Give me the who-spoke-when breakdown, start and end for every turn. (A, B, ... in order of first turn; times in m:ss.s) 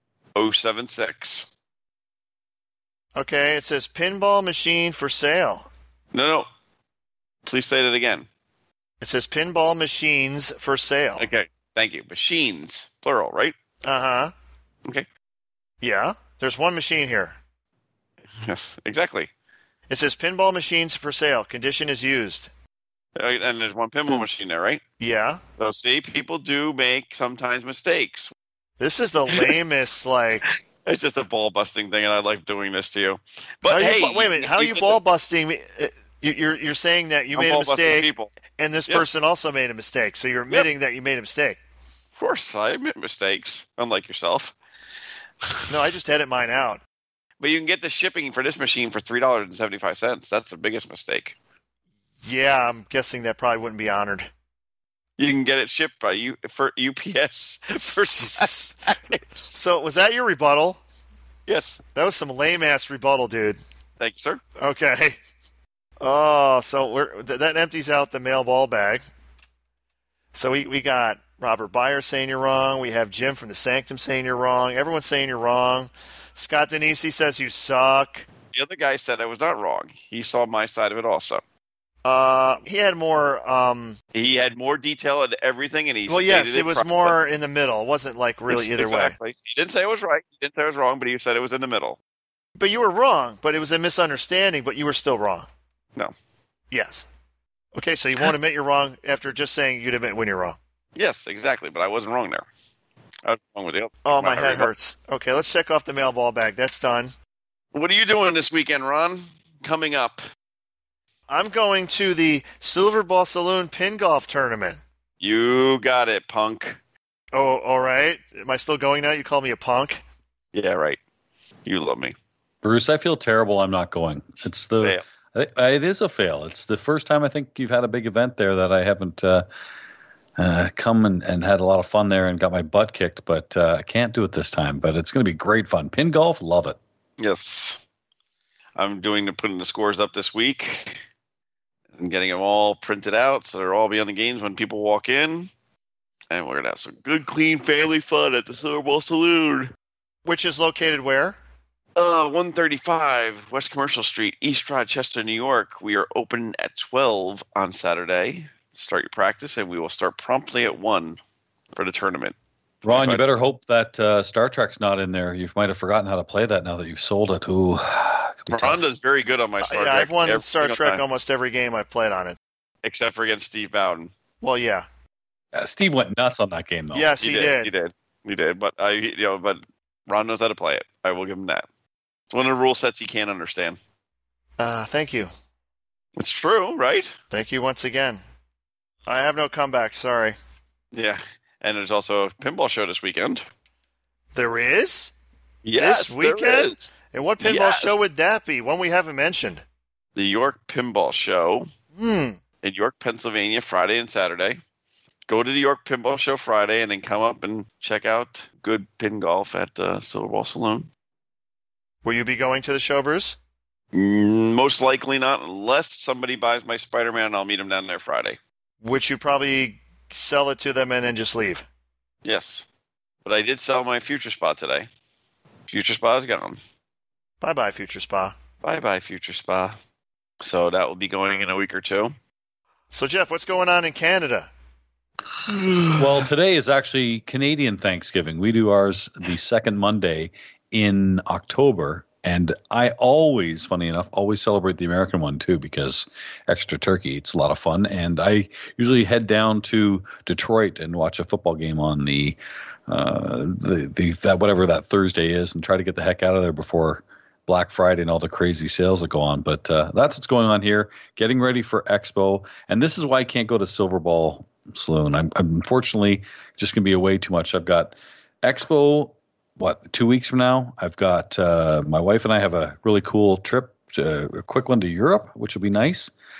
0:00.4-0:01.5 A
0:03.2-0:05.6 B
0:06.1-0:06.5 A
0:07.4-0:08.3 A
0:09.0-0:11.3 B
0:11.2-0:13.5 A
0:13.8-0:14.3 B
0:15.8-0:17.4 B
0:18.4-0:19.3 A
0:19.9-0:22.5 B
0:23.2-0:24.8 A
0:25.0-0:25.4 B
0:25.6-0:28.3 A
0:28.8-0:30.4 B
0:30.8-0:35.0 A
0:33.6-0:41.6 B
0:37.4-0:38.3 A
0:38.9-0:39.2 A
0:42.2-0:44.5 A
0:45.7-0:46.8 B
0:47.4-0:51.4 A
0:52.2-0:54.3 B
0:55.2-0:59.5 A
0:57.7-0:58.8 B
0:59.5-1:00.8 B
1:01.5-1:01.8 A
1:01.9-1:03.6 B
1:04.0-1:04.4 A
1:04.6-1:05.2 B
1:06.0-1:09.0 B
1:10.3-1:18.3 B
1:18.5-1:21.4 A
1:22.0-1:24.0 B
1:24.1-1:27.2 A
1:26.1-1:29.1 B
1:28.5-1:32.0 A
1:32.6-1:35.5 B
1:36.7-1:37.1 B
1:37.7-1:40.6 B
1:41.0-1:42.4 A
1:43.2-1:44.7 A
1:44.0-1:47.1 B
1:47.7-1:50.2 A
1:51.3-1:54.8 B
1:55.2-1:56.8 A
1:57.3-2:00.0 B
2:00.5-2:01.0 A
2:01.6-2:02.1 A
2:02.6-2:09.4 C
2:04.8-2:05.0 A
2:10.4-2:16.8 C
2:17.2-2:17.8 A
2:18.8-2:21.0 A
2:22.0-2:25.5 A
2:26.3-2:29.7 A
2:30.2-2:31.4 B
2:32.0-2:41.2 A
2:41.7-2:42.4 A
2:42.8-2:48.8 C
2:42.9-2:43.3 A
2:48.5-2:51.0 A
2:49.6-2:52.4 B
2:52.8-2:54.1 A
2:54.4-2:54.9 B
2:55.5-2:57.1 C
2:56.9-2:57.7 B
2:57.2-3:01.6 A
3:02.3-3:03.8 A
3:04.6-3:05.3 B
3:06.2-3:07.1 A
3:07.3-3:08.2 B
3:09.1-3:10.4 B
3:10.9-3:13.4 A
3:14.3-3:15.1 B
3:15.6-3:18.1 A
3:15.8-3:19.6 B
3:20.2-3:21.7 A
3:22.0-3:22.4 B
3:22.6-3:24.6 A
3:25.3-3:30.9 A
3:32.0-3:33.4 B
3:33.9-3:38.4 A
3:38.8-3:41.6 B
3:42.2-3:42.6 A
3:43.2-3:44.9 A
3:45.7-3:46.6 A
3:47.4-3:48.4 B
3:48.6-3:49.8 A
3:50.4-3:52.1 A
3:52.9-3:54.5 B
3:56.0-4:36.1 C